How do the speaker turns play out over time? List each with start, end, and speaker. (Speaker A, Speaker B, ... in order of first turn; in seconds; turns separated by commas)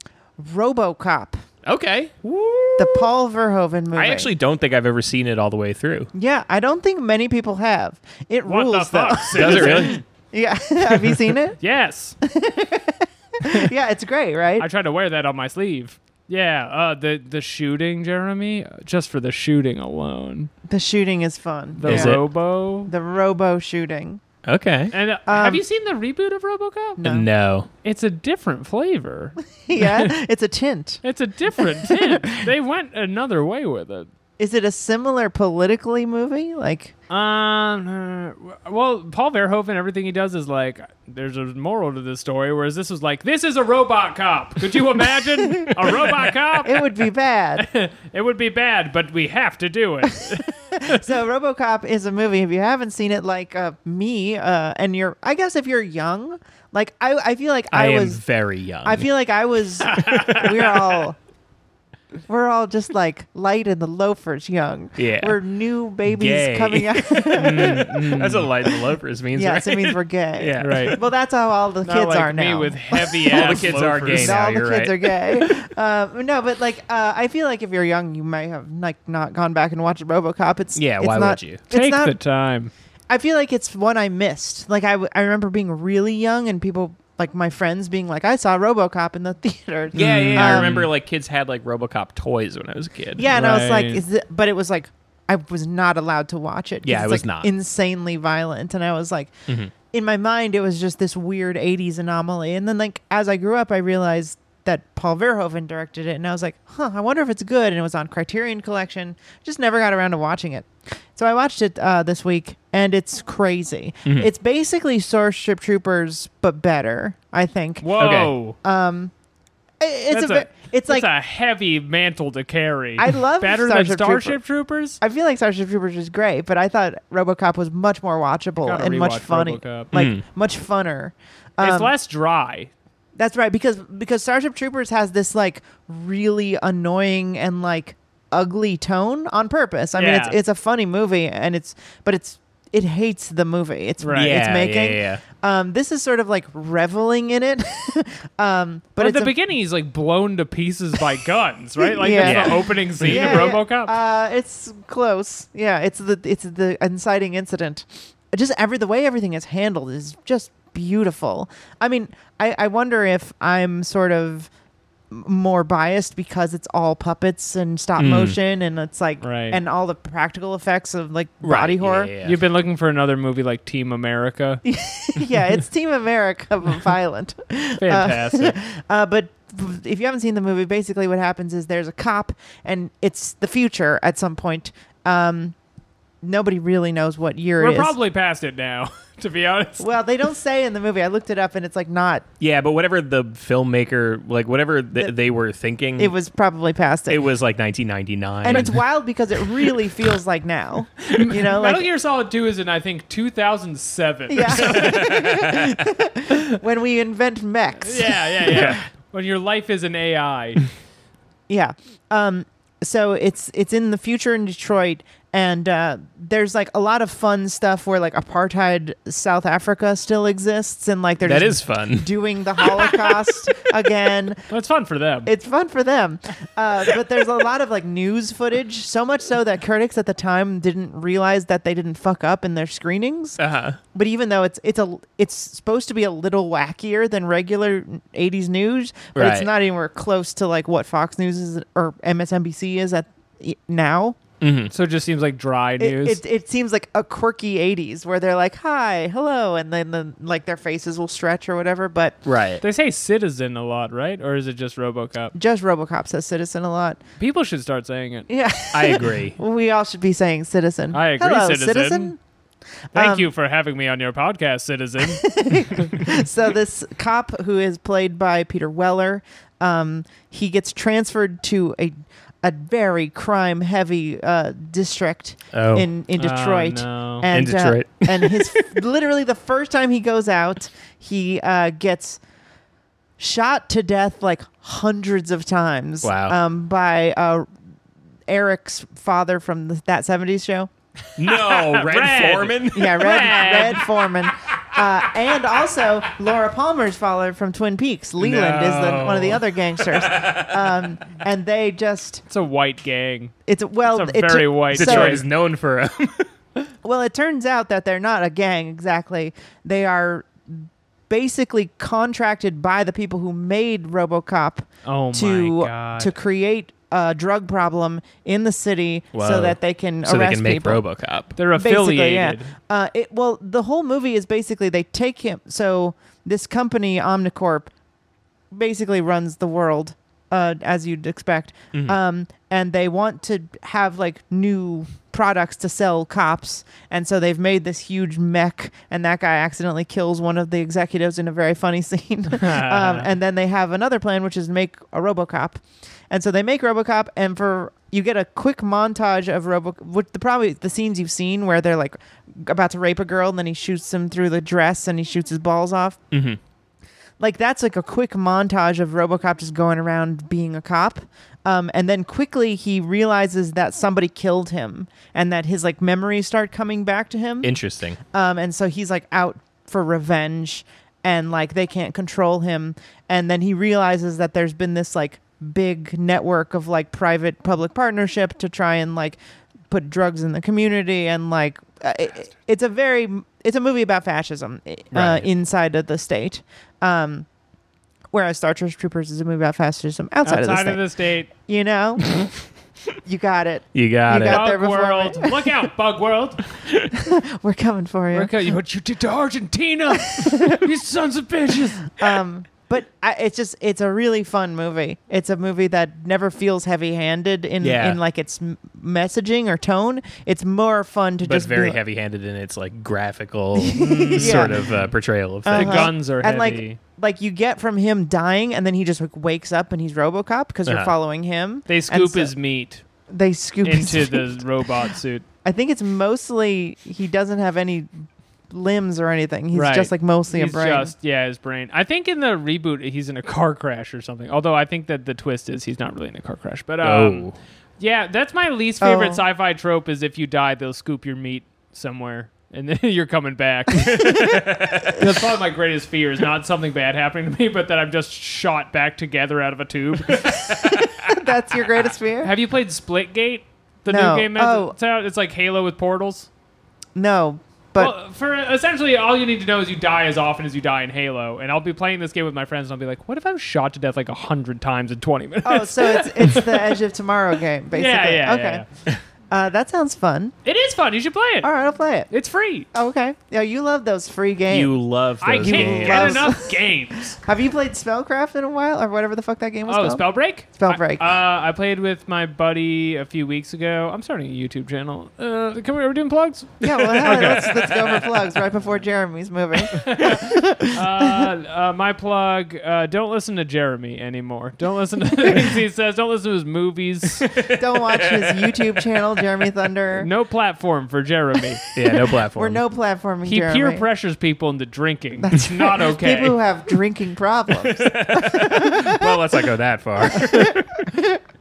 Speaker A: 0.4-1.4, Speaker B: 1.6-3.0, Speaker A: 2.8-4.3, Speaker B: 3.9-6.1, Speaker A: 6.1-11.6, Speaker C: 8.4-10.0, Speaker B: 9.3-10.0, Speaker C: 11.6-12.2, Speaker A: 12.2-14.7, Speaker C: 14.6-20.5, Speaker A: 20.6-22.2, Speaker C: 21.8-22.9, Speaker B: 21.9-22.2, Speaker A: 22.9-24.2, Speaker B: 24.4-24.9, Speaker C: 24.9-27.0, Speaker A: 25.3-25.6, Speaker A: 27.0-27.3, Speaker B: 27.0-27.7, Speaker C: 27.8-30.1, Speaker A: 29.6-31.0, Speaker C: 31.0-34.1, Speaker A: 31.6-32.5, Speaker A: 34.4-36.9, Speaker C: 37.1-46.9, Speaker A: 45.1-46.0, Speaker A: 46.6-47.6, Speaker C: 47.6-51.0, Speaker A: 50.4-58.2, Speaker B: 57.7-59.0, Speaker A: 58.8-61.2, Speaker C: 59.8-60.7, Speaker A: 62.3-67.9, Speaker B: 65.0-65.4, Speaker B: 66.1-71.0, Speaker C: 67.3-68.5, Speaker A: 69.3-82.1, Speaker C: 70.6-71.0, Speaker C: 71.8-74.4, Speaker B: 73.2-75.5, Speaker B: 80.8-81.6, Speaker C: 81.7-82.7, Speaker A: 83.1-90.8, Speaker C: 89.9-90.9, Speaker B: 89.9-93.3, Speaker A: 93.2-99.3, Speaker C: 93.3-94.0, Speaker B: 96.8-97.5, Speaker A: 99.9-117.9, Speaker C: 117.8-118.5, Speaker B: 118.0-118.3, Speaker A: 118.6-119.1, Speaker A: 119.8-121.1, Speaker C: 120.1-125.0, Speaker A: 123.0-124.4, Speaker A: 125.0-131.9, Speaker C: 128.6-129.9, Speaker B: 129.9-130.2, Speaker C: 131.6-132.7, Speaker A: 133.2-149.3, Speaker C: 139.9-140.4, Speaker C: 144.0-144.4, Speaker B: 144.1-145.2, Speaker C: 149.0-153.9, Speaker A: 151.8-164.5, Speaker B: 152.2-153.5, Speaker A: 165.1-172.1, Speaker B: 168.0-168.4, Speaker C: 169.2-169.6, Speaker B: 171.4-172.4, Speaker C: 172.2-174.6, Speaker A: 174.6-185.6, Speaker C: 177.8-178.6, Speaker A: 186.2-187.9, Speaker C: 187.6-189.9, Speaker A: 189.8-192.2, Speaker B: 192.4-196.2, Speaker A: 196.0-197.2, Speaker B: 197.1-198.8, Speaker A: 198.4-201.9, Speaker C: 201.1-205.1, Speaker A: 204.3-208.8, Speaker B: 204.5-205.8, Speaker C: 207.8-210.7, Speaker B: 208.5-208.8, Speaker A: 211.5-224.4, Speaker B: 221.2-222.1, Speaker C: 224.5-225.3, Speaker A: 225.2-233.4, Speaker B: 233.4-233.8, Speaker A: 233.9-244.2, Speaker B: 239.1-239.5, Speaker B: 244.4-244.7, Speaker C: 244.7-246.2, Speaker A: 245.8-252.2, Speaker B: 252.2-252.6, Speaker C: 252.6-255.3, Speaker A: 255.3-257.0, Speaker C: 257.2-258.3, Speaker A: 258.3-262.2, Speaker B: 258.7-259.4, Speaker C: 260.9-262.1, Speaker A: 262.9-263.3, Speaker C: 262.9-265.9, Speaker A: 265.0-282.2, Speaker B: 275.5-275.9, Speaker C: 276.2-277.3, Speaker B: 277.3-278.6, Speaker A: 283.2-287.5, Speaker B: 286.0-286.4, Speaker A: 288.3-290.7, Speaker B: 291.2-293.0, Speaker C: 291.2-293.9, Speaker A: 292.7-302.2, Speaker B: 298.2-300.8, Speaker C: 302.3-303.3, Speaker A: 303.5-305.2, Speaker C: 303.9-305.2, Speaker B: 304.7-306.3, Speaker A: 306.8-320.8, Speaker C: 314.8-316.1, Speaker B: 319.1-321.4, Speaker C: 321.4-322.5, Speaker A: 321.5-327.7, Speaker A: 328.5-356.0, Speaker C: 342.3-343.1, Speaker B: 356.1-356.4, Speaker A: 357.2-367.5, Speaker B: 367.4-368.0, Speaker A: 368.1-379.2, Speaker A: 379.7-387.2, Speaker B: 384.9-385.3, Speaker A: 388.1-390.8, Speaker C: 390.2-391.3, Speaker A: 391.4-392.1, Speaker A: 393.1-395.4, Speaker B: 393.7-394.5, Speaker C: 394.2-396.4, Speaker A: 396.9-398.6, Speaker C: 398.1-401.9, Speaker A: 400.0-400.6, Speaker A: 401.9-411.8, Speaker B: 407.6-408.0, Speaker B: 411.2-415.9, Speaker A: 413.6-414.8, Speaker C: 413.8-414.8, Speaker A: 415.4-422.3, Speaker C: 415.5-416.8, Speaker B: 420.6-420.9, Speaker C: 421.7-422.8, Speaker A: 423.1-424.4, Speaker C: 423.6-425.2, Speaker A: 425.4-430.9, Speaker C: 429.5-437.3, Speaker B: 436.8-437.4, Speaker C: 437.8-444.1, Speaker A: 438.8-439.2, Speaker B: 443.8-445.1, Speaker C: 444.9-450.3, Speaker B: 450.1-451.2, Speaker A: 450.6-452.3, Speaker C: 452.2-456.3, Speaker A: 453.9-454.7, Speaker A: 456.9-457.9, Speaker C: 457.8-466.7, Speaker A: 465.4-468.6, Speaker C: 467.7-468.6, Speaker A: 469.3-470.3, Speaker C: 470.4-471.5, Speaker A: 471.4-472.1, Speaker C: 472.1-472.7, Speaker A: 472.7-474.7, Speaker B: 474.5-476.3, Speaker C: 475.2-477.2, Speaker A: 475.4-476.5, Speaker A: 477.2-481.0, Speaker C: 479.6-487.5, Speaker A: 486.6-491.3, Speaker B: 487.0-488.2, Speaker C: 489.7-497.3, Speaker B: 497.2-499.2, Speaker A: 497.5-500.1, Speaker C: 499.9-501.6, Speaker B: 501.7-502.6, Speaker A: 502.3-503.9, Speaker C: 503.2-506.4, Speaker A: 505.2-509.1, Speaker B: 507.6-510.9, Speaker A: 510.1-511.2